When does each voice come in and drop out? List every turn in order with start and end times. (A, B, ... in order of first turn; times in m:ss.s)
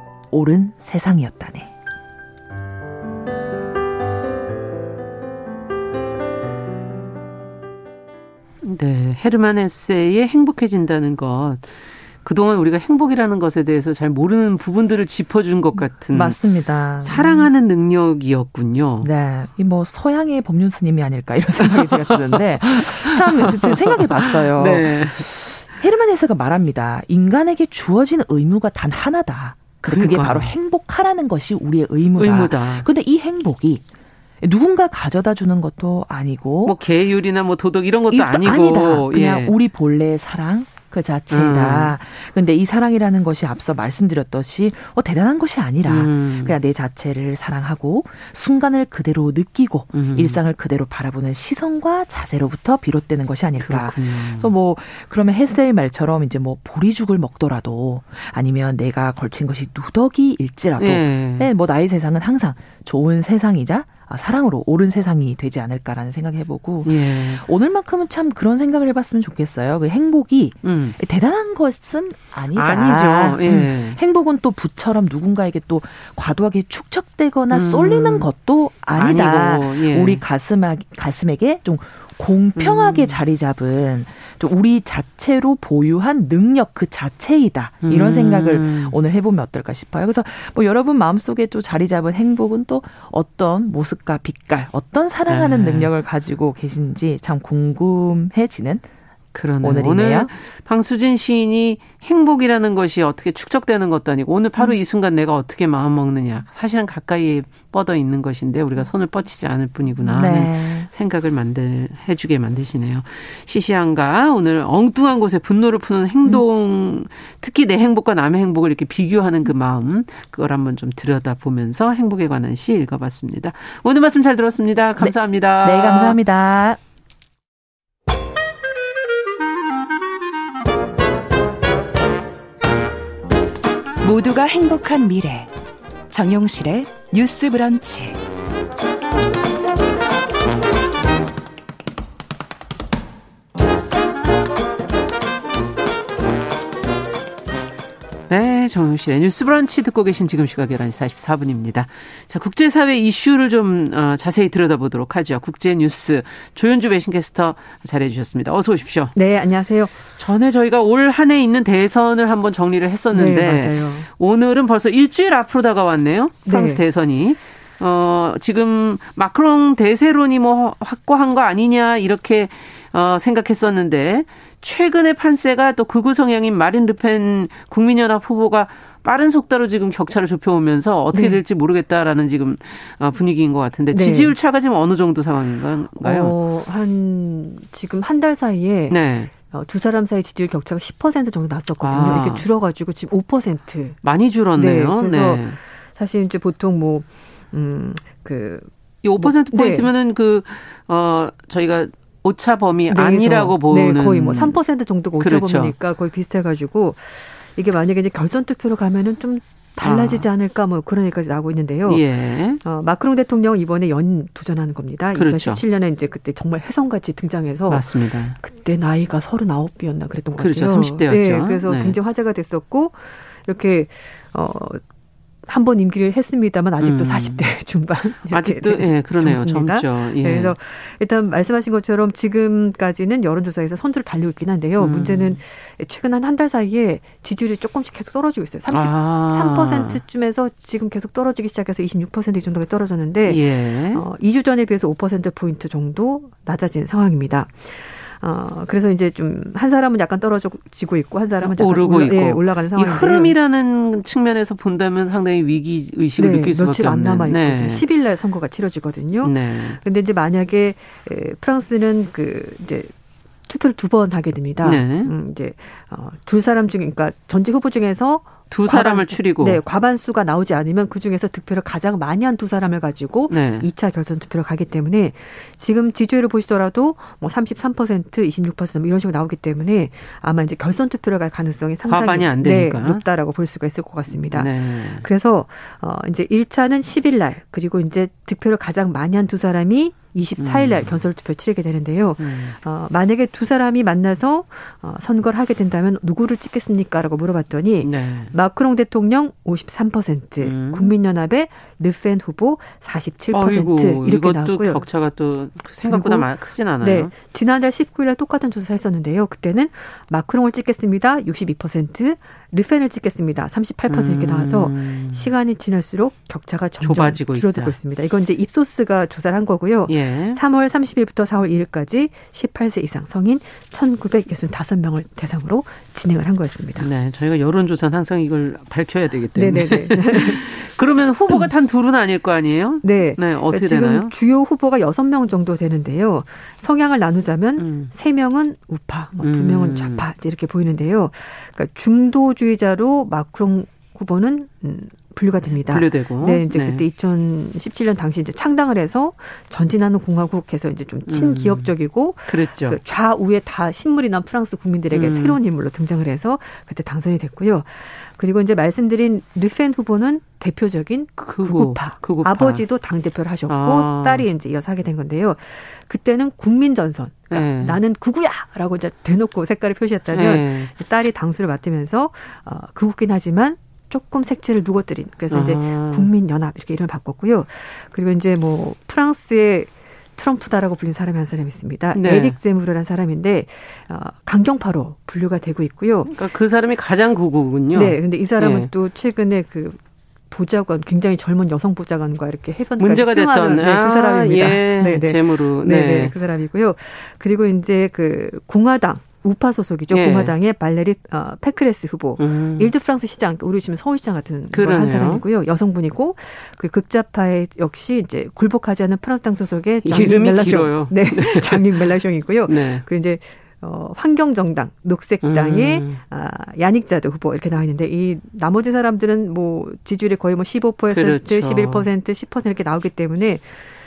0:00.3-0:01.7 A
0:08.6-0:11.6 B
0:12.2-0:16.4 B
0:16.1-0:17.5 A
0:17.0-0:19.1 B
0:19.0-0:33.8 A
0:21.6-0:25.3 B
0:29.9-0:30.5 B
0:32.2-0:32.9 B
0:34.4-0:36.8 A
0:36.6-0:39.5 B
0:38.1-1:38.8 A
0:41.3-0:41.9 B
0:45.8-0:46.6 B
0:49.9-0:50.4 B
0:53.6-0:54.5 B
1:00.8-1:01.5 B
1:06.8-1:07.4 B
1:10.6-1:10.9 B
1:12.5-1:14.0 B
1:17.5-1:18.3 B
1:18.9-1:20.2 B
1:22.6-1:23.2 B
1:27.8-1:29.0 B
1:35.3-1:35.9 B
1:39.4-2:06.2 B
1:39.6-1:40.3 A
1:50.0-1:50.9 A
2:05.0-2:06.8 A
2:14.0-2:15.5 C
2:16.1-2:18.2 C
2:28.3-2:39.1 B
2:39.1-2:40.0 D
2:40.2-3:06.4 B
2:43.1-2:44.1 D
2:46.4-2:46.8 D
3:01.1-3:01.4 D
3:03.9-3:04.4 D
3:06.0-3:14.0 D
3:08.9-3:09.3 B
3:11.8-3:12.4 B
3:14.0-3:15.6 B
3:14.6-3:19.9 D
3:19.0-3:24.6 B
3:22.9-3:32.0 D
3:25.2-3:25.7 B
3:29.8-3:30.2 B
3:31.8-3:32.6 B
3:32.6-3:44.8 D
3:35.2-3:35.6 B
3:37.7-3:38.4 B
3:40.4-3:42.0 B
3:45.5-4:13.4 D
3:46.8-3:47.5 B
3:48.3-3:50.5 B
3:54.8-3:55.4 B
3:58.7-4:00.0 B
4:03.2-4:04.0 B
4:11.4-4:17.8 B
4:16.2-4:22.9 D
4:19.2-4:19.8 B
4:23.5-5:04.8 D
4:24.6-4:25.1 B
4:28.5-4:29.6 B
4:33.3-4:33.7 B
4:41.9-4:43.0 B
4:44.1-4:45.1 B
4:50.4-4:51.0 B
4:52.2-4:52.6 B
4:57.8-4:58.3 B
5:00.4-5:00.9 B
5:03.3-5:07.1 B
5:05.8-5:06.3 D
5:06.8-5:26.9 D
5:13.9-5:15.3 B
5:16.8-5:17.8 B
5:19.9-5:20.4 B
5:26.8-5:34.1 B
5:29.3-5:30.5 D
5:32.8-6:26.1 D
5:37.6-5:37.9 B
5:39.2-5:40.0 B
5:45.6-5:46.8 B
5:51.1-5:51.7 B
5:52.3-5:52.8 B
5:54.9-5:55.4 B
6:01.2-6:02.6 B
6:03.5-6:04.2 B
6:07.3-6:07.8 B
6:10.1-6:10.7 B
6:15.3-6:16.1 B
6:21.9-6:22.4 B
6:26.1-6:28.7 B
6:27.7-6:29.8 D
6:30.3-7:03.5 D
6:32.8-6:36.1 B
6:39.9-6:40.3 B
6:42.2-6:42.7 B
6:44.5-6:45.2 B
6:49.8-6:51.8 B
6:52.5-6:52.8 B
6:55.2-6:56.0 B
7:00.9-7:01.9 B